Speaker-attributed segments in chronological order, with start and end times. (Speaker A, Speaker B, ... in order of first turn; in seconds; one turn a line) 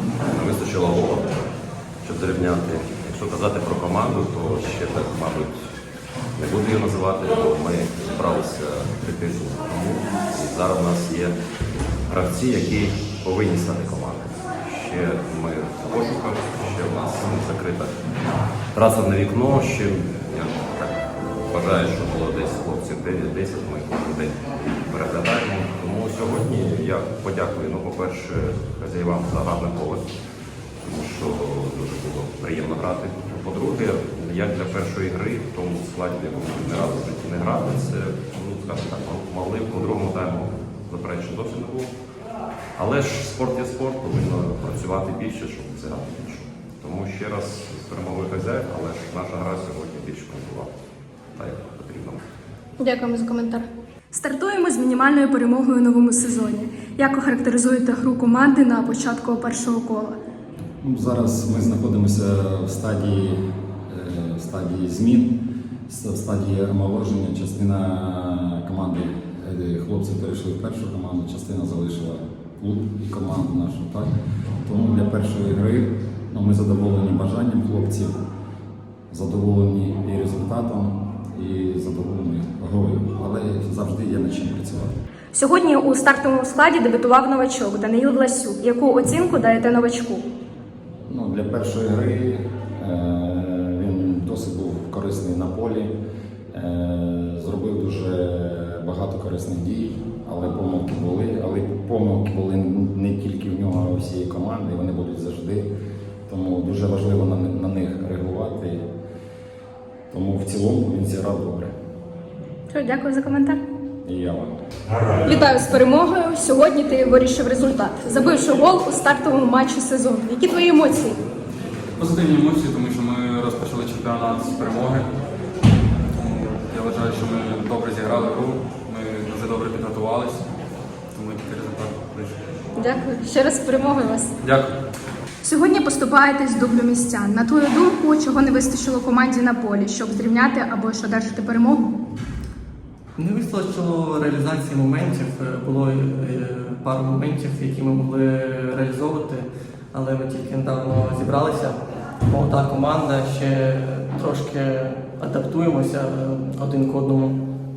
Speaker A: 0.2-1.5
Speaker A: 2.0-5.5
Speaker A: 6.3-11.4
Speaker A: 12.1-18.0
Speaker A: 18.7-30.1
Speaker A: 30.8-41.9
Speaker A: 42.8-50.7
Speaker A: 51.4-52.2
Speaker B: 52.8-60.1
Speaker C: 60.8-74.1
Speaker C: 74.6-78.1
Speaker C: 79.1-84.9
Speaker B: 85.3-90.2
Speaker C: 91.1-95.9
Speaker C: 96.5-105.7
Speaker C: 106.3-108.8
Speaker C: 110.1-111.7
Speaker B: 112.7-113.6
Speaker C: 114.0-114.5
Speaker B: 115.2-121.2
Speaker D: 122.0-125.1
Speaker D: 126.2-130.5
Speaker D: 131.1-132.4
Speaker B: 132.7-134.3
Speaker D: 134.4-134.8
Speaker B: 135.4-141.9
Speaker E: 143.2-157.4